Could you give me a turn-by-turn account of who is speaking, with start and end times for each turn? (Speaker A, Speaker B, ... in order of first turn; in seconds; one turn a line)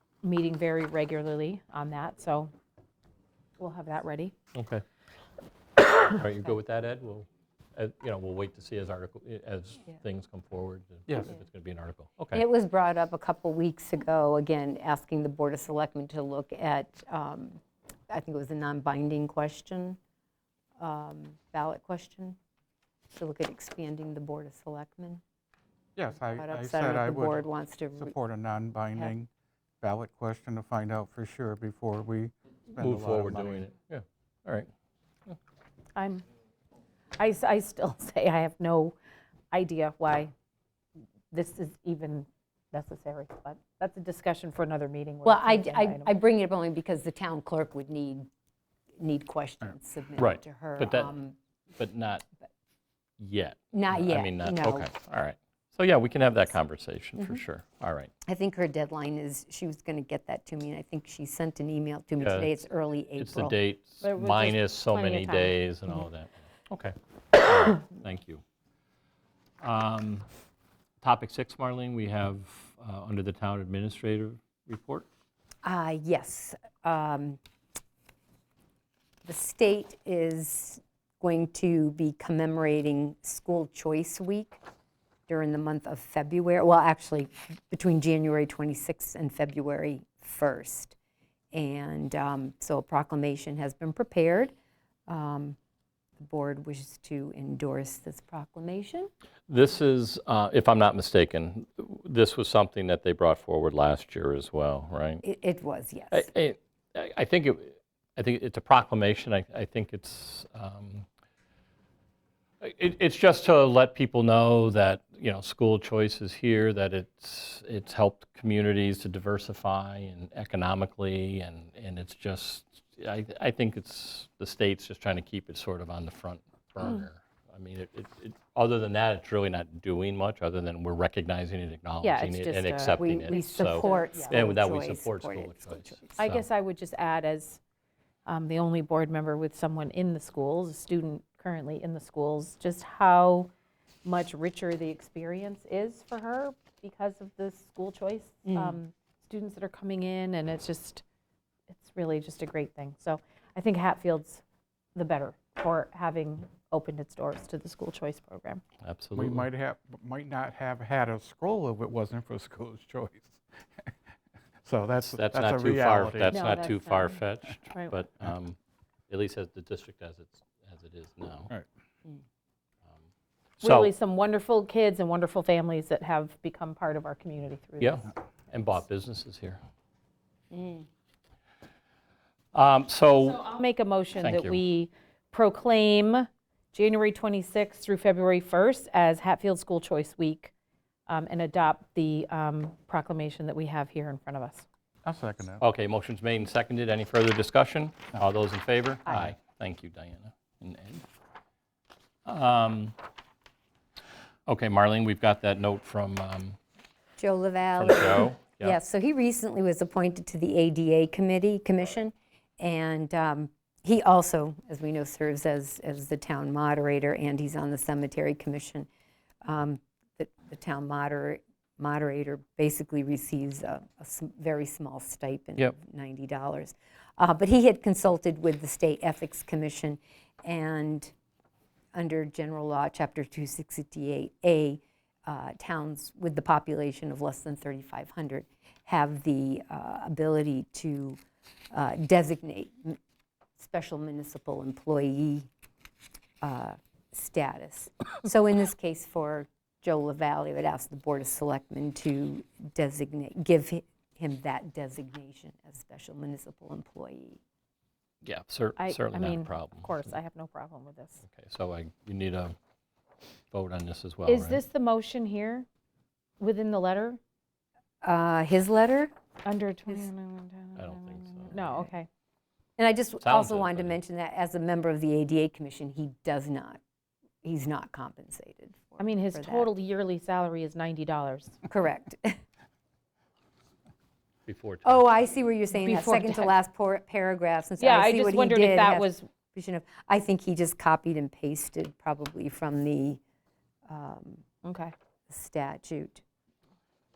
Speaker A: 0.2-2.5
Speaker A: 3.6-4.3
Speaker B: 4.5-4.8
Speaker B: 6.0-12.4
Speaker C: 12.3-20.0
Speaker C: 20.8-22.4
Speaker C: 23.1-25.2
Speaker D: 25.9-27.4
Speaker C: 26.3-28.1
Speaker D: 28.0-29.3
Speaker D: 29.8-33.6
Speaker B: 32.8-34.7
Speaker A: 36.0-36.2
Speaker A: 37.2-39.0
Speaker A: 39.5-40.3
Speaker A: 41.3-46.1
Speaker C: 45.2-48.3
Speaker C: 49.0-51.4
Speaker B: 50.2-51.2
Speaker B: 51.8-52.3
Speaker B: 53.2-58.1
Speaker C: 53.7-54.9
Speaker C: 58.3-63.6
Speaker B: 62.2-62.6
Speaker B: 63.2-68.4
Speaker A: 64.0-65.6
Speaker B: 69.6-70.2
Speaker B: 71.0-75.0
Speaker C: 75.6-77.4
Speaker C: 79.2-84.6
Speaker C: 85.3-91.0
Speaker C: 91.5-94.5
Speaker C: 95.1-95.6
Speaker C: 96.2-99.1
Speaker B: 99.5-105.2
Speaker C: 105.2-106.3
Speaker B: 106.1-111.0
Speaker B: 112.6-136.4
Speaker A: 132.0-134.5
Speaker C: 132.9-136.2
Speaker A: 136.2-137.6
Speaker A: 138.2-143.5
Speaker A: 144.0-151.0
Speaker C: 148.5-148.8
Speaker A: 151.7-154.4
Speaker A: 154.9-158.6
Speaker B: 158.8-159.4
Speaker D: 159.2-163.4
Speaker D: 164.6-166.3
Speaker B: 165.0-168.6
Speaker A: 166.3-167.2
Speaker B: 169.1-171.5
Speaker B: 173.6-173.9
Speaker A: 173.6-178.1
Speaker B: 177.8-179.6
Speaker C: 180.5-180.8
Speaker B: 182.5-183.4
Speaker A: 183.3-190.5
Speaker B: 184.2-184.6
Speaker A: 191.1-194.7
Speaker D: 195.0-195.6
Speaker B: 195.6-201.1
Speaker B: 202.2-202.9
Speaker B: 204.5-206.6
Speaker C: 207.2-218.9
Speaker B: 207.7-208.8
Speaker C: 219.4-231.1
Speaker C: 231.9-241.2
Speaker C: 241.7-243.0
Speaker C: 243.6-245.5
Speaker C: 246.4-257.4
Speaker B: 258.2-260.1
Speaker A: 258.8-261.2
Speaker B: 261.2-262.6
Speaker B: 263.5-264.6
Speaker A: 264.2-265.7
Speaker A: 266.4-267.2
Speaker C: 268.0-269.1
Speaker A: 269.4-272.1
Speaker B: 270.8-271.7
Speaker C: 272.8-276.8
Speaker B: 273.2-274.0
Speaker C: 277.4-279.7
Speaker A: 279.0-281.6
Speaker C: 281.7-282.4
Speaker B: 284.5-285.0
Speaker C: 284.8-293.2
Speaker A: 285.7-286.5
Speaker A: 287.8-289.3
Speaker C: 293.9-294.4
Speaker A: 294.6-294.9
Speaker C: 295.3-296.2